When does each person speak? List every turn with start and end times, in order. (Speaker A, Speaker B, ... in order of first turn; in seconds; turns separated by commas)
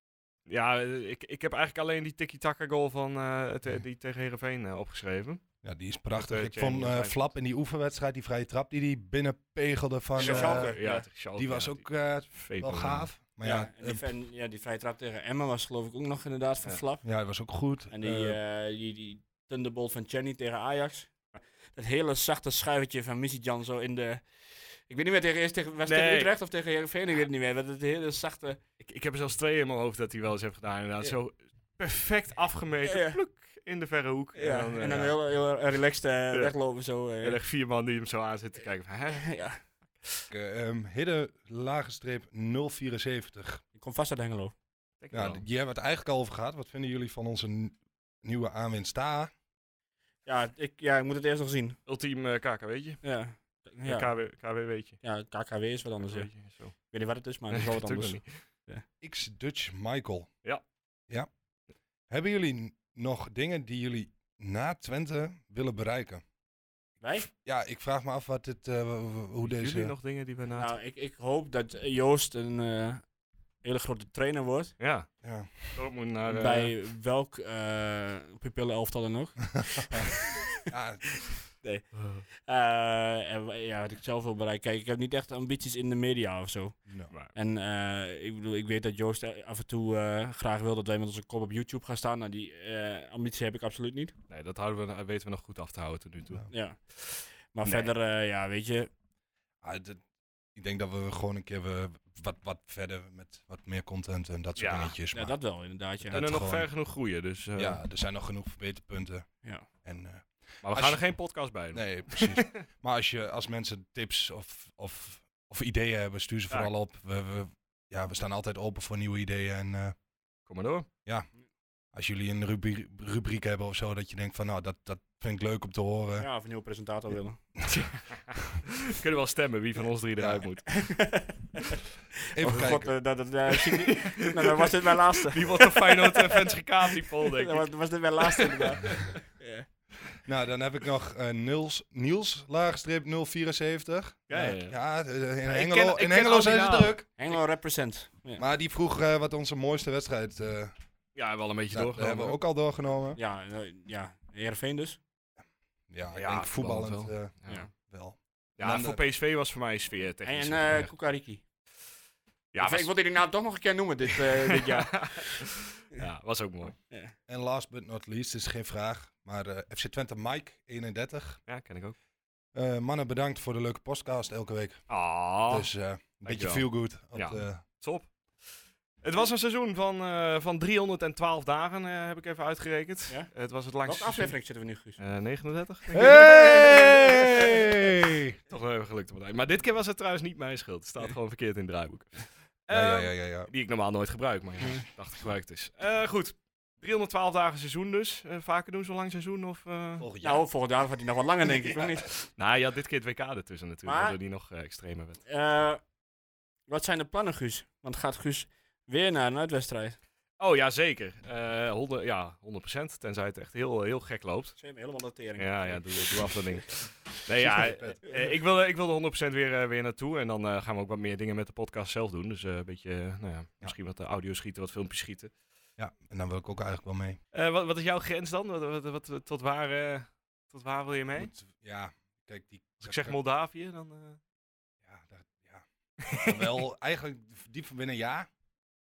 Speaker A: 0.5-5.4, Speaker B: 5.6-14.1, Speaker A: 6.1-7.3, Speaker C: 10.2-11.1, Speaker A: 10.2-13.1, Speaker C: 13.4-17.0, Speaker B: 17.0-18.4, Speaker C: 17.9-28.6, Speaker A: 25.9-26.3, Speaker A: 28.8-35.2, Speaker C: 32.9-33.2, Speaker C: 34.3-37.4, Speaker A: 37.2-39.3, Speaker C: 39.1-39.6, Speaker B: 40.3-43.6, Speaker C: 43.7-44.5, Speaker A: 45.0-45.4, Speaker B: 45.1-49.3, Speaker C: 50.2-51.8, Speaker A: 51.9-53.0, Speaker C: 53.0-54.1, Speaker A: 53.8-55.0, Speaker C: 55.0-58.8, Speaker A: 56.0-56.8, Speaker A: 57.5-58.2, Speaker B: 59.0-60.3, Speaker B: 62.1-66.2, Speaker C: 67.0-67.3, Speaker B: 67.3-69.9, Speaker A: 69.4-70.7, Speaker C: 70.5-73.0, Speaker C: 73.6-74.8, Speaker A: 74.8-75.1, Speaker B: 75.2-75.8, Speaker A: 75.7-76.7, Speaker C: 76.3-80.5, Speaker B: 79.6-80.1, Speaker B: 80.7-81.1, Speaker C: 81.2-86.8, Speaker A: 82.0-82.2, Speaker C: 87.3-94.1, Speaker A: 94.3-97.9, Speaker C: 96.5-98.9, Speaker B: 99.6-100.0, Speaker B: 100.5-105.4, Speaker A: 104.6-104.9, Speaker C: 105.1-106.2, Speaker B: 106.0-106.7, Speaker A: 106.1-107.8, Speaker B: 107.5-119.9, Speaker A: 110.6-112.5, Speaker A: 120.5-120.9, Speaker B: 121.9-126.3, Speaker C: 126.2-127.4, Speaker A: 127.7-130.7, Speaker B: 130.2-130.5, Speaker C: 130.7-131.8, Speaker B: 132.3-132.9, Speaker C: 132.4-139.7, Speaker A: 134.0-134.7, Speaker A: 135.3-138.8, Speaker B: 140.2-147.0, Speaker A: 144.3-144.8, Speaker A: 145.4-147.4, Speaker C: 147.2-148.4, Speaker B: 148.3-150.7, Speaker A: 151.1-152.4, Speaker B: 151.7-153.2, Speaker C: 153.2-155.0, Speaker B: 155.9-159.0, Speaker A: 156.1-157.7, Speaker A: 158.6-160.9, Speaker C: 160.2-161.4, Speaker A: 162.5-162.9, Speaker C: 162.6-165.4, Speaker A: 164.3-166.8, Speaker B: 167.3-171.4, Speaker A: 171.5-171.9, Speaker B: 172.5-177.6, Speaker A: 174.9-175.7, Speaker A: 176.2-184.3, Speaker C: 183.8-185.0, Speaker A: 185.0-187.5, Speaker C: 185.9-187.4, Speaker B: 185.9-188.4, Speaker A: 188.5-200.1, Speaker B: 192.7-193.5, Speaker B: 200.0-200.4, Speaker C: 200.2-202.2, Speaker A: 202.2-205.2, Speaker C: 203.8-204.2, Speaker C: 205.3-205.8, Speaker C: 206.7-210.0, Speaker A: 210.4-214.6, Speaker C: 214.6-216.5, Speaker A: 215.4-225.3, Speaker B: 217.4-218.0, Speaker B: 225.8-227.2, Speaker A: 227.3-231.3, Speaker B: 231.2-233.2, Speaker A: 232.8-234.2, Speaker B: 234.8-238.3, Speaker A: 236.0-236.6